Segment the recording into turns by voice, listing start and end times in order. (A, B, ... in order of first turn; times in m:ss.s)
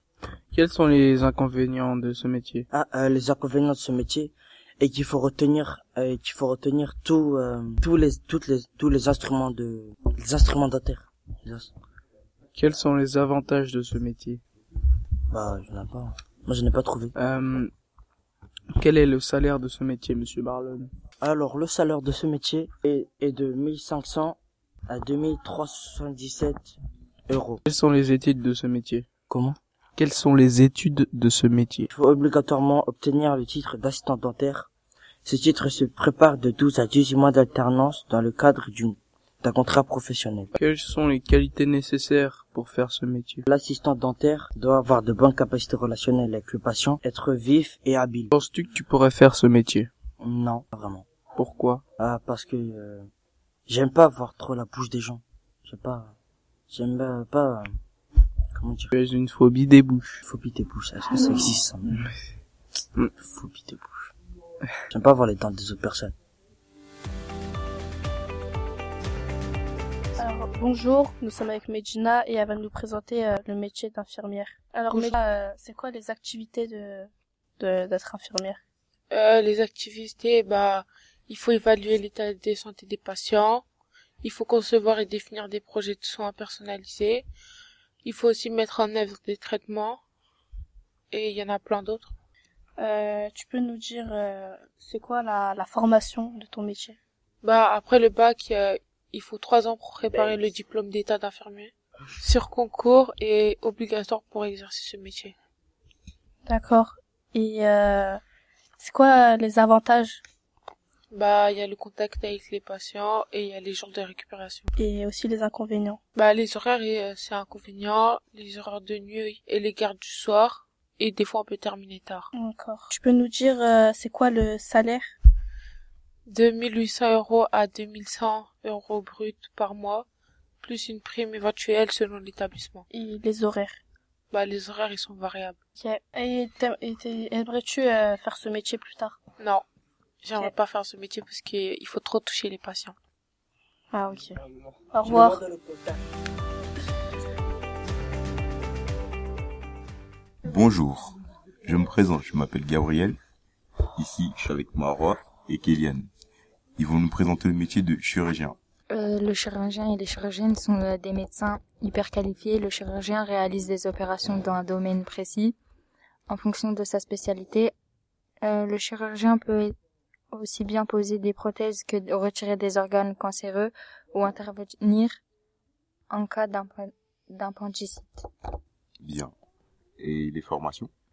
0:00.5-0:02.7 A
0:02.7-0:11.7 B
0:12.6-0:14.4 A
0:15.3-0:17.1 B
0:17.2-0:17.7 A
0:18.7-0:20.9 A
0:21.2-0:26.8 B
0:27.3-0:27.6 B
0:27.7-0:29.1 A
0:29.3-0:29.6 B
0:30.0-0:31.9 A
0:31.9-0:34.7 B
0:35.2-0:40.5 B
0:40.5-0:43.4 A
0:43.5-0:48.3 B
0:48.3-0:49.9 A
0:50.2-0:51.1 B
0:51.4-0:51.8 A
0:52.0-0:53.1 B
0:53.7-0:56.2 B
0:56.7-0:57.7 B
0:58.6-0:58.9 B
0:58.9-1:00.2 A
1:00.2-1:02.0 B
1:03.2-1:04.1 B
1:04.9-1:06.1 B
1:10.2-1:18.6 C
1:19.1-1:23.6 D
1:24.2-1:27.3 D
1:28.0-1:30.0 D
1:31.1-1:32.1 D
1:32.8-1:37.0 C
1:37.4-1:45.4 D
1:46.5-1:48.2 C
1:48.8-1:50.2 C
1:51.1-1:54.7 D
1:54.8-1:56.0 C
1:56.2-2:02.3 D
2:02.3-2:05.1 C
2:06.3-2:10.1 D
2:10.6-2:12.9 D
2:12.9-2:13.7 C
2:14.3-2:15.6 D
2:15.8-2:19.2 C
2:19.4-2:19.6 D
2:20.2-2:23.0 D
2:23.9-2:24.3 C
2:24.9-2:25.4 C
2:30.4-2:33.2 E
2:34.0-2:36.1 E
2:36.8-2:38.6 E
2:38.9-2:45.6 F
2:46.3-2:47.7 F
2:48.4-2:49.8 F
2:50.3-2:55.2 F
2:56.1-2:58.1 F
2:59.0-2:59.3 E
3:00.0-3:00.9 E